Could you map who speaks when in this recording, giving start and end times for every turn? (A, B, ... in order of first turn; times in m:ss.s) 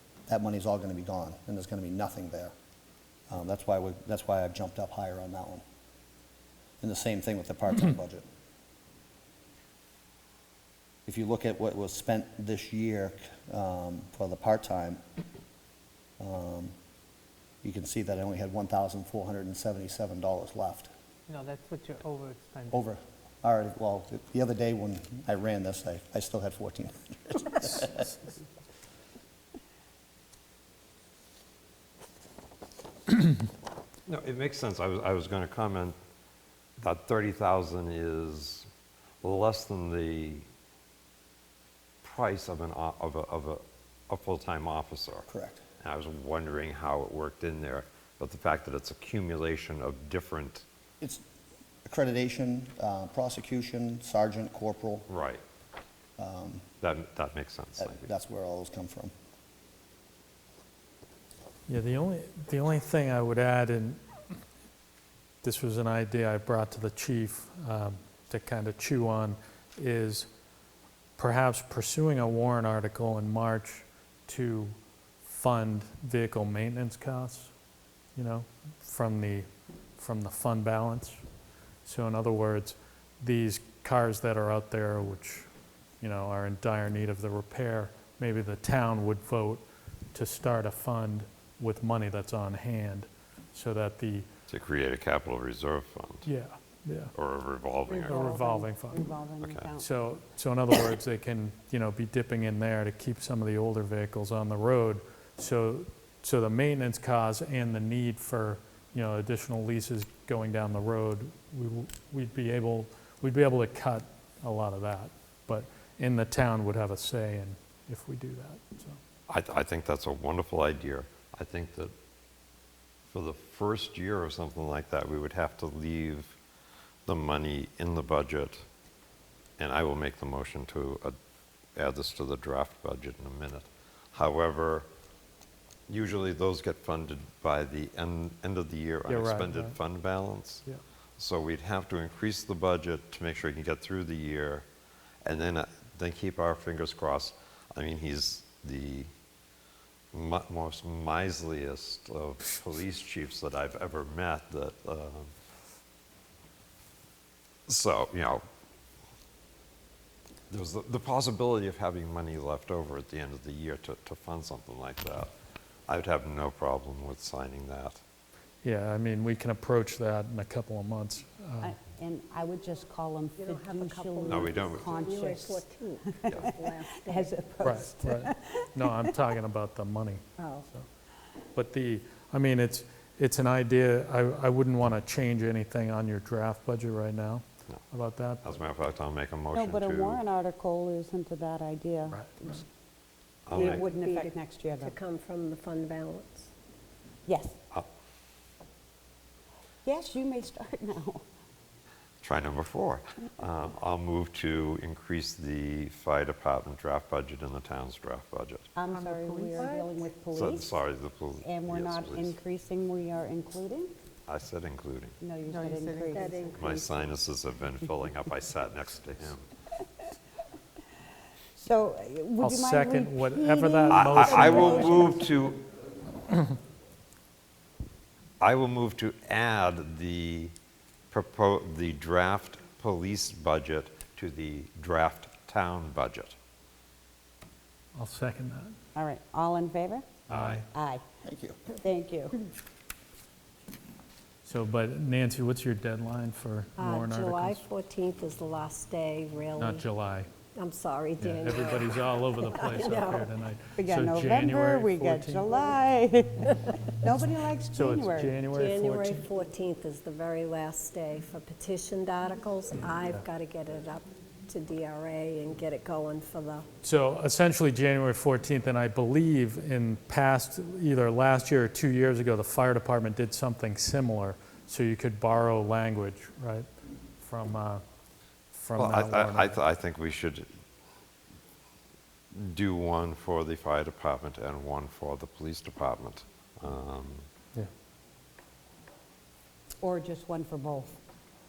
0:00.3-0:02.5 A
0:03.3-0:05.6 A
0:06.8-0:08.2 A
0:11.1-0:15.0 A
0:16.2-0:16.7 A
0:17.6-0:20.9 A
0:21.3-0:22.8 B
0:22.7-0:28.1 A
0:34.0-0:36.0 C
0:36.8-0:38.7 C
0:39.2-0:40.4 C
0:42.0-0:45.3 C
0:45.3-0:45.6 A
0:45.8-0:50.6 C
0:51.8-0:55.1 A
0:55.1-0:55.4 C
0:56.2-0:56.6 A
0:56.8-0:58.1 C
0:57.8-0:59.1 A
1:01.7-1:04.0 D
1:05.4-1:10.3 D
1:11.2-1:17.5 D
1:18.2-1:19.5 D
1:20.0-1:21.2 D
1:21.8-1:25.5 D
1:26.0-1:34.3 D
1:34.5-1:36.2 C
1:36.2-1:37.1 D
1:37.1-1:38.3 C
1:37.9-1:39.9 E
1:38.1-1:39.0 D
1:39.4-1:39.7 C
1:39.8-1:59.0 D
1:59.3-2:01.9 C
2:03.1-2:06.4 C
2:07.0-2:08.6 C
2:09.6-2:11.2 C
2:11.7-2:14.9 C
2:15.9-2:20.6 C
2:19.1-2:19.7 D
2:21.2-2:24.6 C
2:25.2-2:29.1 C
2:30.1-2:35.3 C
2:37.7-2:38.4 C
2:40.5-2:45.3 C
2:45.9-2:48.0 C
2:48.6-2:51.7 D
2:51.6-2:59.1 E
2:53.4-2:57.3 F
2:54.3-2:54.9 C
2:57.6-3:00.8 D
3:00.4-3:00.6 F
3:01.5-3:08.5 D
3:08.4-3:10.2 C
3:09.5-3:12.6 E
3:12.1-3:12.5 D
3:13.4-3:13.8 C
3:13.5-3:16.5 F
3:13.6-3:14.9 E
3:17.2-3:17.5 E
3:19.8-3:21.2 E
3:22.2-3:28.7 C
3:28.7-3:30.8 E
3:28.8-3:30.1 B
3:30.3-3:32.4 C
3:31.4-3:33.9 E
3:34.3-3:35.2 C
3:35.2-3:36.8 E
3:35.5-3:36.8 B
3:36.1-3:36.6 F
3:36.6-3:39.5 C
3:41.6-3:45.2 E
3:42.4-3:44.9 D
3:43.9-3:45.6 C
3:48.4-3:50.5 C
3:51.1-3:56.3 C
3:57.9-3:58.7 D
3:58.9-4:01.0 E
4:00.3-4:00.6 D
4:00.3-4:00.6 C
4:01.2-4:01.6 A
4:01.8-4:02.4 E
4:04.4-4:07.6 D
4:06.8-4:09.9 F
4:09.6-4:10.3 D
4:10.5-4:13.3 F
4:11.2-4:15.6 D
4:13.8-4:18.3 E
4:17.7-4:19.3 D
4:18.5-4:26.6 F
4:26.8-4:36.7 D
4:37.2-4:37.8 D
4:38.5-4:39.6 D
4:38.8-4:40.5 C
4:42.3-4:47.2 C
4:49.8-4:51.0 E